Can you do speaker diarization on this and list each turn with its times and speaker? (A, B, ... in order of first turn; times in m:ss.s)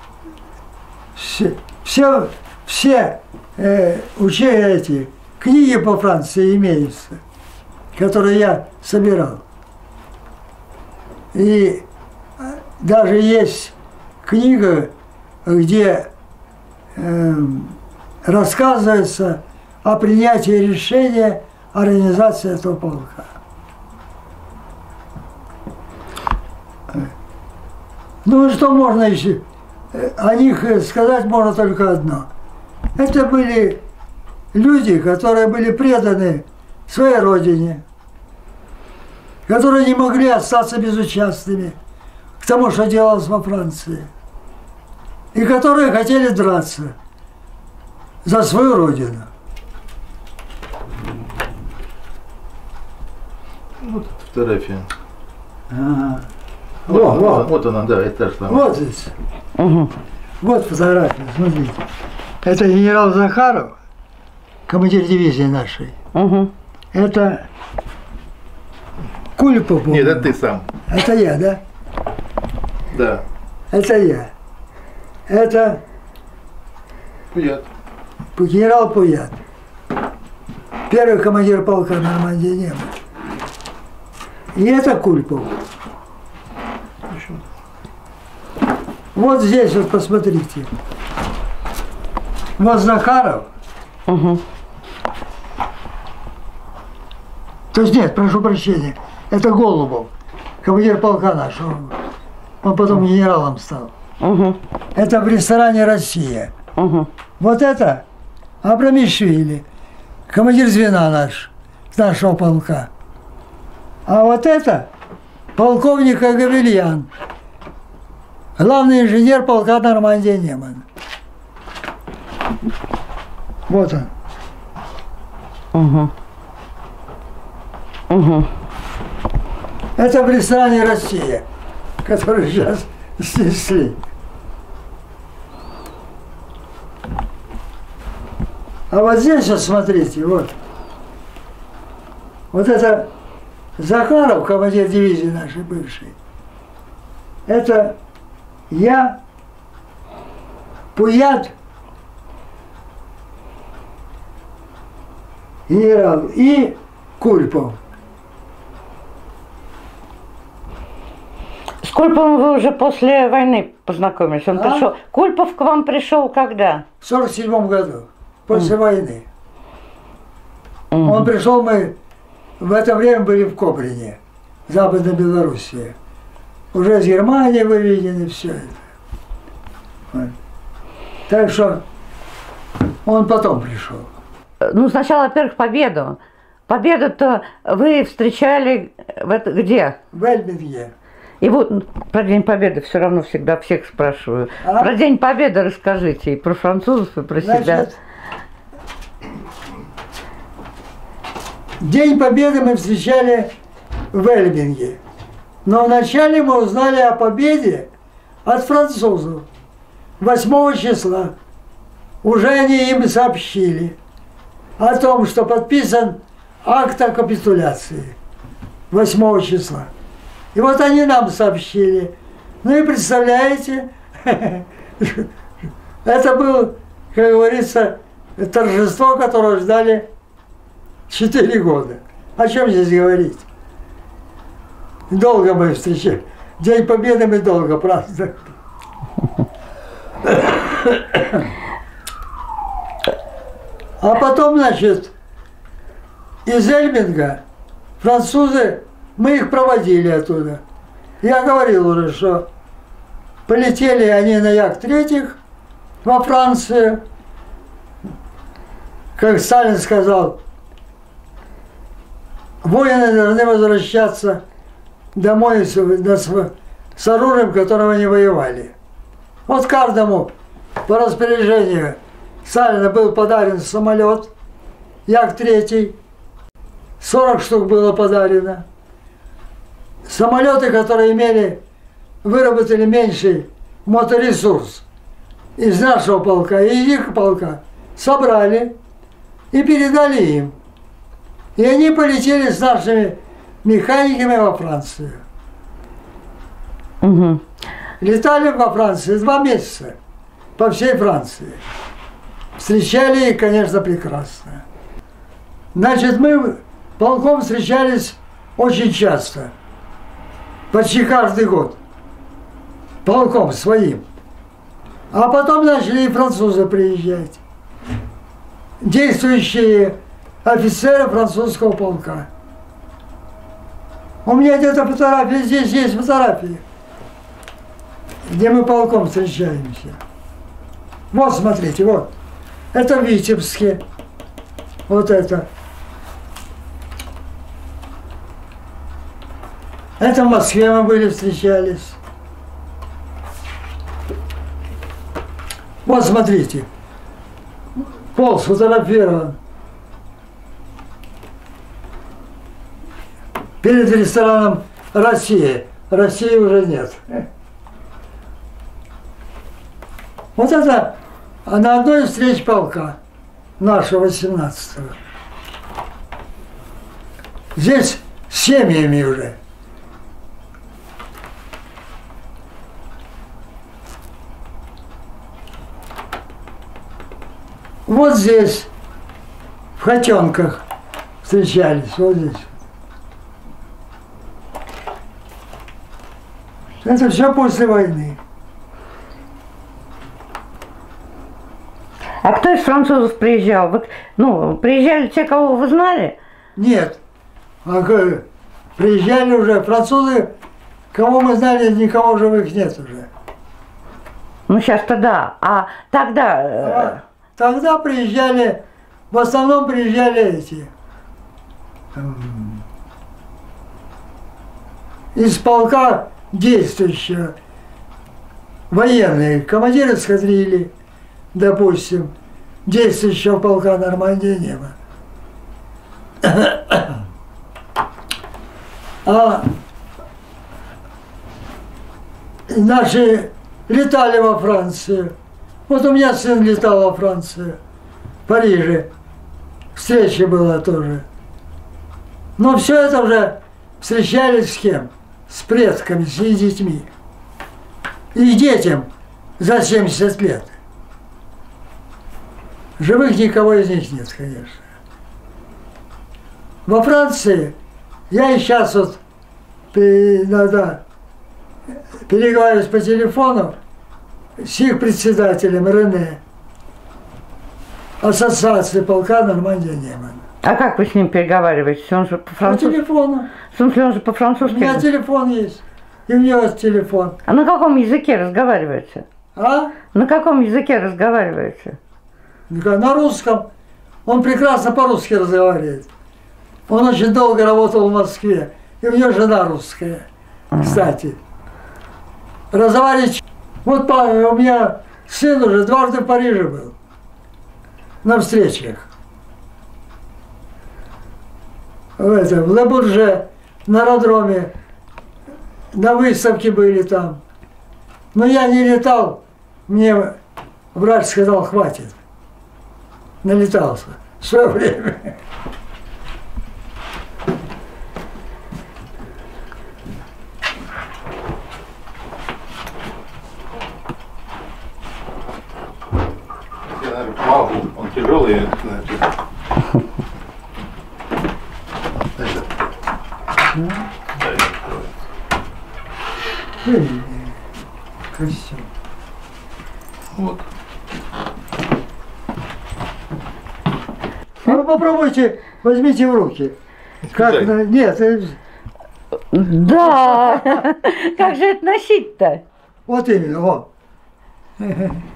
0:01.2-0:07.2 A
0:08.0-0:09.4 A
0:11.3-0:11.8 A
0:12.4-0:13.7 A
0:14.2-0:14.9 A
0:15.4-0:16.1 A
0:17.0-0:23.3 A
0:28.2-0:32.3 A
0:33.0-0:33.8 A
0:34.5-0:37.8 A
0:39.5-0:41.8 A
0:42.4-0:44.1 A
0:45.3-0:47.0 A
0:48.2-0:49.3 A
0:53.8-0:54.9 B
0:55.7-0:56.3 A
0:56.9-0:57.5 A
0:56.9-0:58.7 B
0:58.5-0:59.1 A
0:59.6-0:59.9 C
1:00.4-1:01.8 A
1:02.4-1:03.8 A
1:04.7-1:06.0 A
1:06.1-1:06.5 C
1:06.9-1:07.5 A
1:09.4-1:10.3 A
1:09.9-1:10.7 B
1:10.9-1:11.6 A
1:12.9-1:13.2 B
1:13.7-1:14.3 A
1:15.3-1:15.8 A
1:17.3-1:17.7 B
1:18.4-1:19.4 A
1:20.9-1:22.9 A
1:24.6-1:25.5 A
1:27.1-1:27.4 B
1:29.1-1:30.7 A
1:32.6-1:33.5 A
1:34.1-1:34.4 C
1:37.7-1:40.1 A
1:40.6-1:42.0 A
1:42.6-1:43.9 A
1:44.2-1:44.6 C
1:45.0-1:46.5 A
1:46.8-1:47.1 C
1:47.4-1:48.0 A
1:48.6-1:49.6 A
1:50.3-1:52.9 A
1:54.1-1:54.9 A
1:55.6-1:57.1 A
1:58.6-2:00.8 A
2:03.7-2:04.1 A
2:05.7-2:06.1 C
2:08.1-2:08.5 C
2:10.0-2:11.4 A
2:12.0-2:14.0 A
2:18.9-2:20.5 A
2:22.5-2:23.1 A
2:23.8-2:26.2 A
2:27.5-2:28.0 A
2:28.7-2:29.2 A
2:31.0-2:31.5 A
2:35.7-2:37.8 A
2:41.8-2:46.9 C
2:44.5-2:44.9 A
2:47.0-2:49.3 A
2:50.9-2:51.3 C
2:51.0-2:52.0 A
2:52.6-2:56.0 A
2:56.7-2:58.8 A
3:01.3-3:01.8 A
3:03.0-3:04.1 A
3:04.6-3:10.0 C
3:10.1-3:10.9 A
3:11.4-3:17.9 C
3:14.6-3:14.9 A
3:17.4-3:18.0 A
3:21.8-3:23.5 A
3:24.1-3:25.0 A
3:25.6-3:27.9 A
3:28.4-3:29.5 A
3:30.2-3:31.4 A
3:32.2-3:34.0 A
3:34.8-3:38.2 A
3:38.9-3:39.9 A
3:40.5-3:45.3 A
3:46.0-3:50.1 A
3:51.1-3:53.4 A
3:55.1-3:58.6 A
4:00.2-4:01.5 A
4:04.0-4:05.1 A
4:06.4-4:07.4 A
4:08.0-4:10.6 A
4:11.2-4:12.5 A
4:13.5-4:15.4 A
4:16.0-4:17.0 A
4:19.2-4:20.4 A
4:22.6-4:24.4 A
4:25.2-4:28.7 A
4:29.5-4:30.3 A
4:30.8-4:34.3 A
4:35.1-4:36.0 A
4:37.0-4:38.6 A
4:40.1-4:41.6 A
4:42.2-4:44.8 A
4:45.6-4:48.8 A
4:49.5-4:50.6 A
4:51.6-4:55.2 A
4:57.0-4:57.4 C
4:58.0-5:00.0 A
5:00.6-5:01.6 A
5:02.6-5:04.6 A
5:05.8-5:09.5 A
5:10.7-5:11.8 A
5:13.0-5:14.0 A
5:15.1-5:17.4 A
5:18.8-5:22.3 A
5:24.2-5:26.6 A
5:28.3-5:30.0 A
5:31.1-5:32.1 A
5:32.7-5:33.8 A
5:34.9-5:35.5 A
5:40.0-5:42.0 A
5:45.8-5:46.7 A
5:48.1-5:49.4 A
5:53.6-5:57.3 A
6:00.4-6:03.0 A
6:03.6-6:05.0 A
6:07.6-6:09.4 A
6:17.9-6:18.7 A
6:19.8-6:20.6 A
6:21.2-6:22.5 A
6:26.8-6:28.2 A
6:32.2-6:36.2 C
6:36.6-6:37.0 A
6:37.6-6:38.2 A
6:38.8-6:40.3 A
6:40.9-6:43.1 A
6:44.5-6:47.0 C
6:46.6-6:50.7 A
6:52.0-6:52.6 A
6:55.2-6:57.4 A
6:58.7-7:00.7 A
7:01.3-7:02.1 A
7:02.7-7:04.8 A
7:06.2-7:06.9 A
7:09.0-7:09.5 A
7:12.5-7:15.1 A
7:15.7-7:17.6 A
7:18.3-7:18.9 A
7:19.8-7:21.0 A
7:22.4-7:26.9 A
7:28.1-7:28.9 A
7:29.4-7:30.5 A
7:32.8-7:34.6 A
7:36.7-7:37.6 A
7:38.1-7:39.0 A
7:39.7-7:40.8 A
7:42.1-7:43.6 A
7:44.4-7:46.2 A
7:48.0-7:50.2 A
7:50.4-7:52.8 C
7:52.4-7:53.3 A
7:53.4-7:54.9 C
7:54.4-7:57.2 A
7:57.3-7:59.0 C
7:59.4-7:59.7 A
7:59.9-8:01.8 C
8:02.5-8:03.5 A
8:04.1-8:05.9 A
8:06.7-8:10.1 A
8:10.6-8:11.2 A
8:12.5-8:16.8 A
8:18.0-8:18.9 A
8:22.0-8:24.5 A
8:25.7-8:27.2 A
8:28.1-8:30.2 A
8:30.7-8:32.0 A
8:33.2-8:35.2 A
8:46.7-8:49.2 B
8:52.2-8:52.5 B
8:53.5-8:53.8 A
8:54.2-8:54.9 B
8:56.6-8:57.3 A
8:58.1-8:58.7 A
9:00.1-9:00.4 B
9:04.4-9:06.6 A
9:07.1-9:08.4 A
9:07.1-9:07.4 B
9:09.3-9:12.4 C
9:12.9-9:13.7 A
9:14.6-9:15.0 A